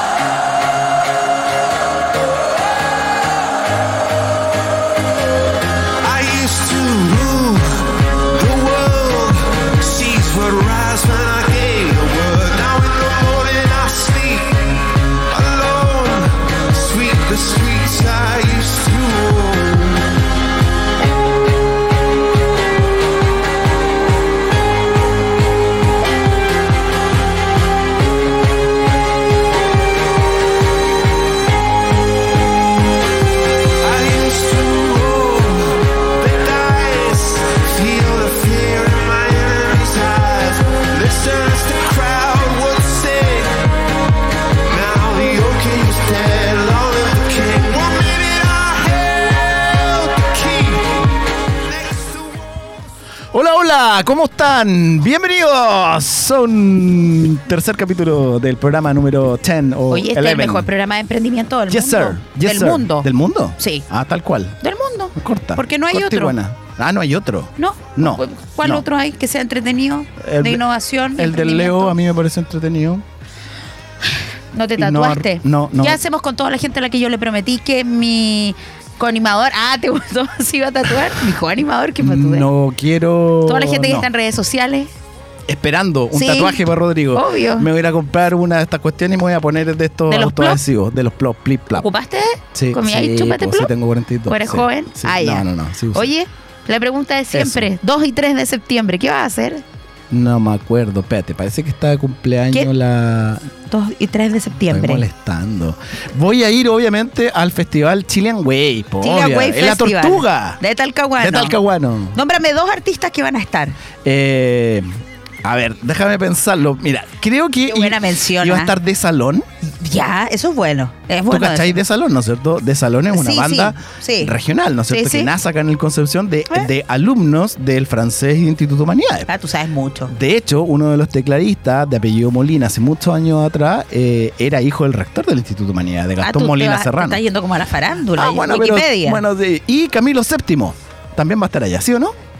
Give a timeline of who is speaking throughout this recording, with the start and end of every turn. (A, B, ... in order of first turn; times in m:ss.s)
0:06.0-0:14.8 A
0:15.3-0:20.1 A
0:33.8-0:43.5 A
0:44.7-0:51.0 A
0:51.7-0:52.6 A
0:53.3-1:00.6 B
0:59.9-1:03.8 C
1:01.7-1:04.6 B
1:04.6-1:06.3 C
1:05.2-1:08.8 B
1:07.6-1:12.0 C
1:10.2-1:10.6 B
1:11.2-1:13.0 B
1:14.5-1:22.5 C
1:14.8-1:16.0 B
1:22.0-1:24.1 B
1:23.4-1:24.9 C
1:25.5-1:31.9 B
1:26.1-1:27.7 C
1:30.1-1:30.6 C
1:31.8-1:33.7 C
1:32.5-1:36.1 B
1:34.3-1:39.6 C
1:37.3-1:37.7 B
1:40.1-1:43.5 B
1:43.7-1:45.0 C
1:44.7-1:50.6 B
1:49.0-1:51.6 C
1:51.2-1:52.2 B
1:52.1-1:53.8 C
1:54.0-1:54.9 B
1:55.4-1:59.4 B
1:57.7-1:58.7 C
1:59.7-2:01.8 C
2:01.3-2:09.3 B
2:03.1-2:04.3 C
2:04.9-2:05.3 C
2:09.3-2:10.1 C
2:10.1-2:17.2 B
2:16.2-2:19.2 C
2:18.2-2:22.1 B